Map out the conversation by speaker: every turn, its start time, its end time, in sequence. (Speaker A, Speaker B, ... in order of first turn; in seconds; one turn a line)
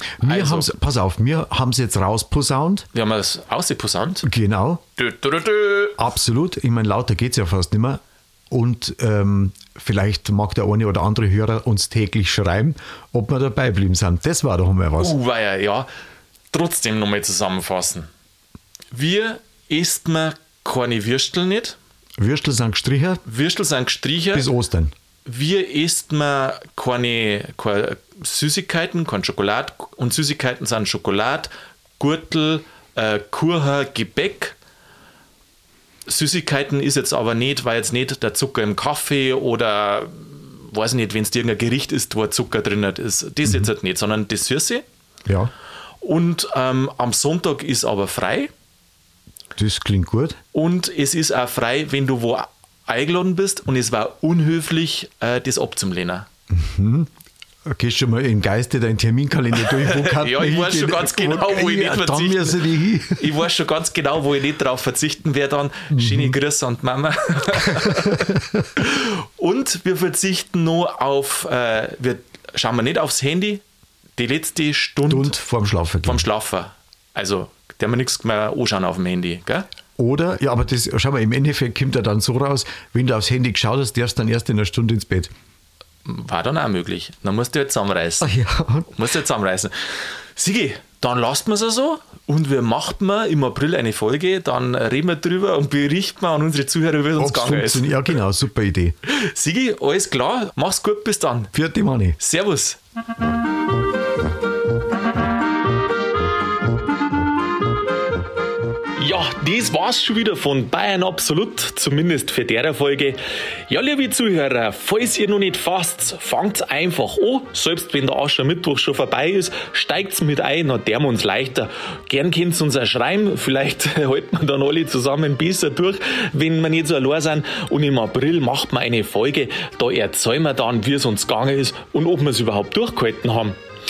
Speaker A: 0.2-0.7
Speaker B: 0.2-2.9
Speaker A: 2.9-4.2
Speaker B: 4.2-4.8
Speaker A: 5.0-6.0
Speaker B: 6.0-15.2
Speaker A: 15.0-15.9
Speaker A: 16.5-18.1
Speaker A: 18.9-21.8
Speaker B: 22.2-23.2
Speaker A: 23.2-24.5
Speaker B: 24.3-24.9
Speaker A: 25.2-34.5
Speaker A: 36.1-44.8
Speaker B: 43.4-43.7
Speaker B: 45.2-45.5
Speaker A: 46.0-48.5
Speaker B: 49.6-50.4
Speaker A: 50.5-56.3
Speaker B: 56.5-57.1
Speaker B: 57.6-63.3
Speaker A: 59.5-73.6
Speaker B: 65.9-66.3
Speaker B: 67.5-68.7
Speaker A: 74.2-75.4
Speaker B: 75.1-76.2
Speaker A: 76.0-79.7
Speaker B: 80.0-85.3
Speaker A: 86.0-88.3
Speaker B: 88.2-88.9
Speaker A: 88.9-97.9
Speaker B: 97.2-99.0
Speaker A: 99.1-101.5
Speaker B: 101.5-102.2
Speaker A: 102.2-102.8
Speaker A: 109.0-133.6